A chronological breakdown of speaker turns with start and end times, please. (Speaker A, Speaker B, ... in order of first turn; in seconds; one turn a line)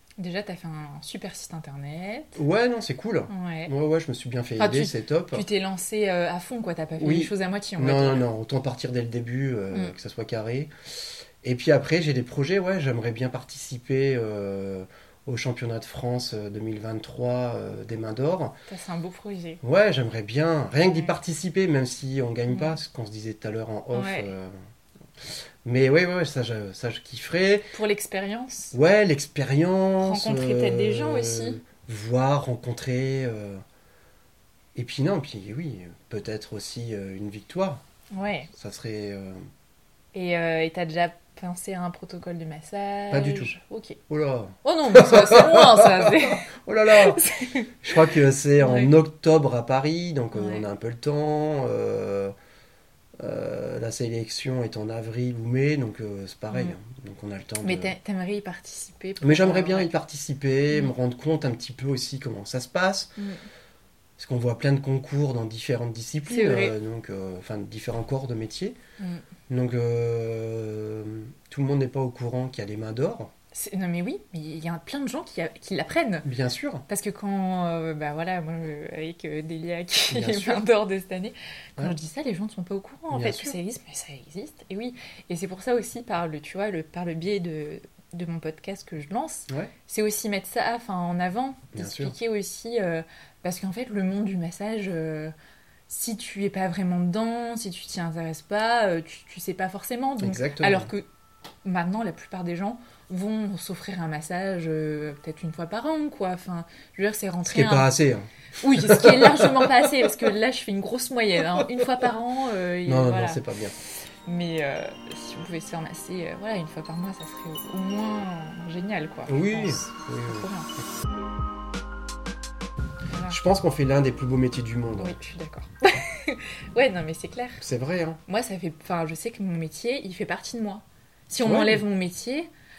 Speaker A: 0.2-2.4
Speaker B: 2.4-5.5
Speaker A: 3.3-3.7
Speaker A: 4.6-8.2
Speaker B: 7.0-18.5
Speaker A: 18.7-19.6
Speaker B: 19.6-24.6
Speaker A: 22.5-22.8
Speaker A: 23.9-24.3
Speaker B: 25.6-27.7
Speaker A: 27.7-28.7
Speaker B: 28.7-33.6
Speaker A: 30.0-31.6
Speaker B: 34.8-37.8
Speaker A: 38.1-38.5
Speaker B: 38.5-39.4
Speaker A: 40.1-44.0
Speaker B: 43.1-43.5
Speaker B: 44.1-47.2
Speaker A: 44.6-48.9
Speaker B: 47.8-52.3
Speaker A: 50.3-50.6
Speaker B: 53.2-57.9
Speaker A: 56.5-56.8
Speaker A: 57.6-59.9
Speaker B: 59.2-63.1
Speaker B: 64.2-68.8
Speaker A: 66.3-66.8
Speaker B: 69.5-73.3
Speaker A: 73.5-76.3
Speaker B: 76.2-76.8
Speaker A: 76.9-95.3
Speaker B: 80.1-80.6
Speaker B: 83.1-83.6
Speaker B: 89.5-89.7
Speaker B: 91.7-92.2
Speaker A: 95.9-101.1
Speaker B: 100.2-100.9
Speaker A: 101.6-107.9
Speaker B: 107.5-109.7
Speaker A: 108.6-113.4
Speaker B: 112.9-113.8
Speaker A: 114.3-120.7
Speaker B: 119.3-120.5
Speaker A: 123.1-123.4
Speaker B: 123.3-125.2
Speaker A: 125.0-127.6
Speaker B: 127.6-128.2
Speaker A: 128.3-132.5
Speaker B: 131.4-131.8